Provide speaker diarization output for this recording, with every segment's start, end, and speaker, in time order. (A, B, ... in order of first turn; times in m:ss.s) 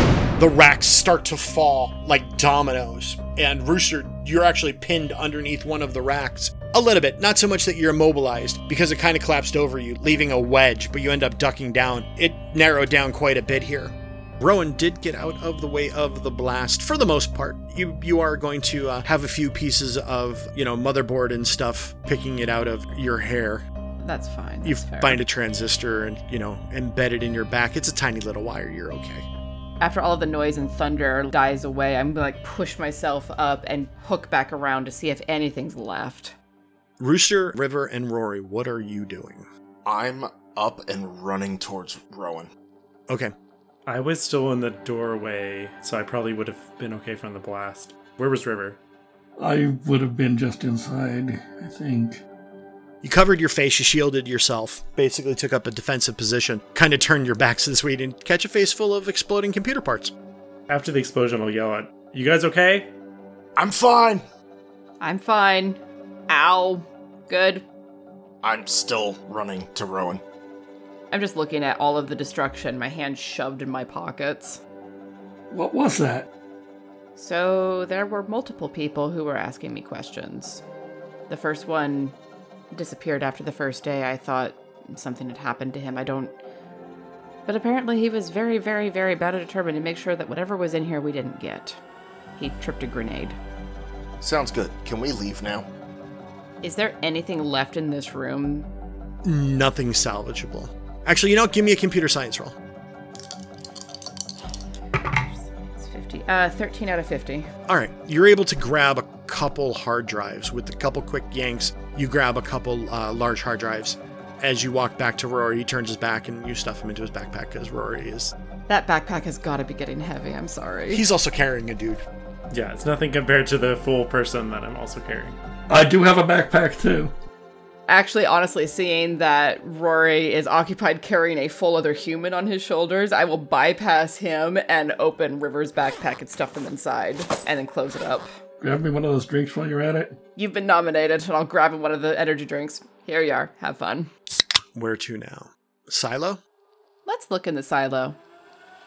0:00.4-0:23.6 A
0:24.0-0:25.2 B
0:24.6-0:29.2 A
0:29.8-0:36.3 B
0:37.0-0:39.5 A
0:39.8-0:42.5 C
0:43.8-0:48.8 D
0:49.4-0:52.2 E
0:53.0-1:00.1 A
1:00.7-1:02.9 D
1:03.6-1:04.2 C
1:05.0-1:07.6 B
1:08.4-1:10.2 C
1:11.1-1:14.6 B
1:15.5-1:16.3 E
1:17.2-1:20.6 B
1:21.3-1:22.2 B
1:22.7-1:26.4 B
1:27.4-1:31.8 B
1:32.4-1:33.4 B
1:34.2-1:35.7 C
1:36.6-1:38.7 B
1:39.2-1:42.6 A
1:45.0-1:47.5 B
1:47.7-1:58.3 A
1:58.7-2:01.0 B
2:00.9-2:02.0 A
2:02.5-2:05.4 D
2:05.7-2:07.1 E
2:07.9-2:18.3 B
2:18.6-2:20.2 E
2:20.4-2:24.1 B
2:24.7-2:26.4 A
2:27.0-2:28.2 B